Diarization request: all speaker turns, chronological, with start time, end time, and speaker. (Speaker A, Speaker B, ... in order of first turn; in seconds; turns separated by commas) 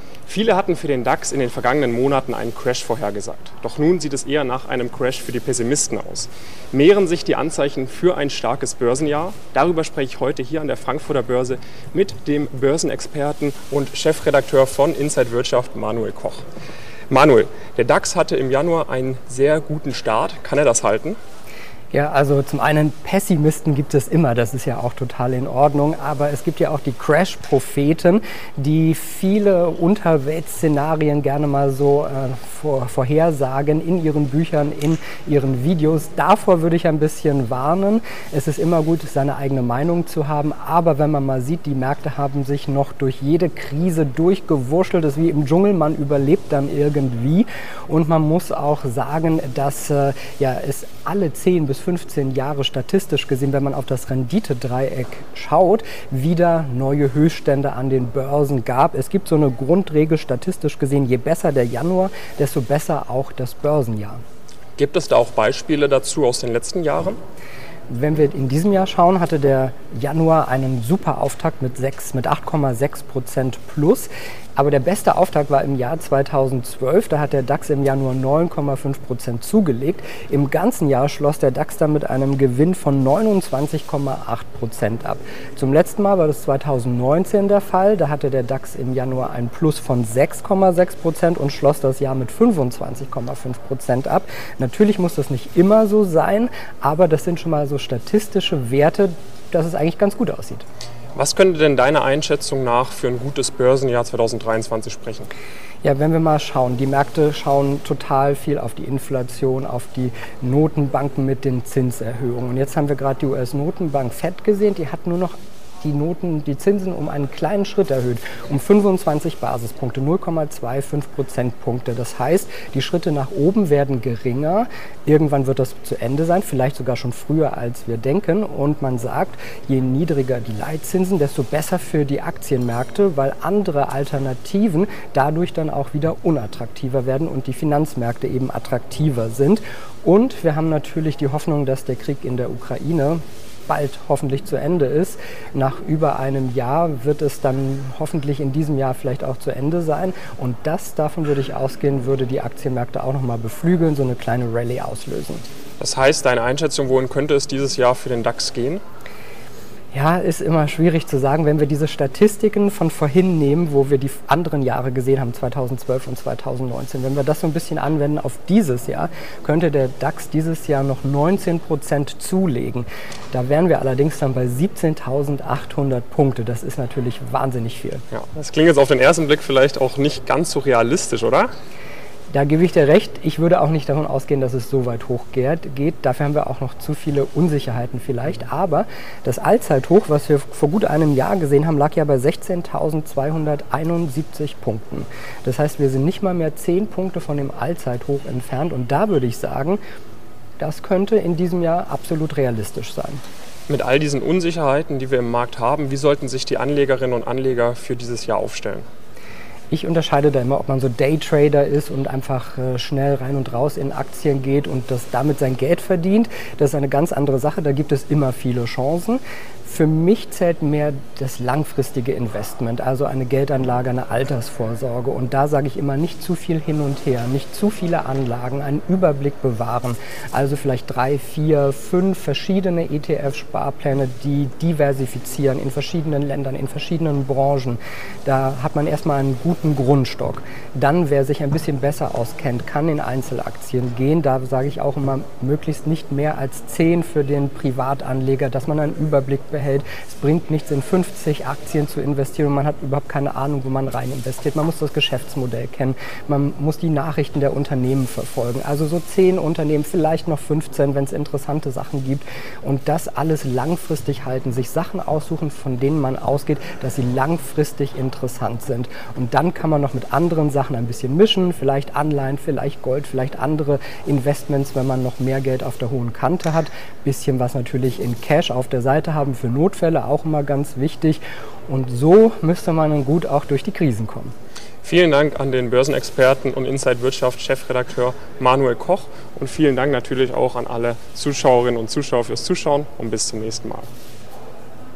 Speaker A: 0.3-16.4, Speaker A: 17.1-21.2, Speaker B: 21.9-64.2, Speaker A: 64.8-67.2, Speaker B: 67.9-100.6, Speaker A: 101.2-105.3, Speaker B: 105.8-155.4, Speaker A: 155.8-158.8, Speaker B: 159.9-178.0, Speaker A: 178.1-181.5, Speaker B: 182.3-199.8, Speaker B: 200.6-203.2, Speaker A: 203.7-208.8, Speaker B: 209.7-284.3, Speaker A: 284.8-293.9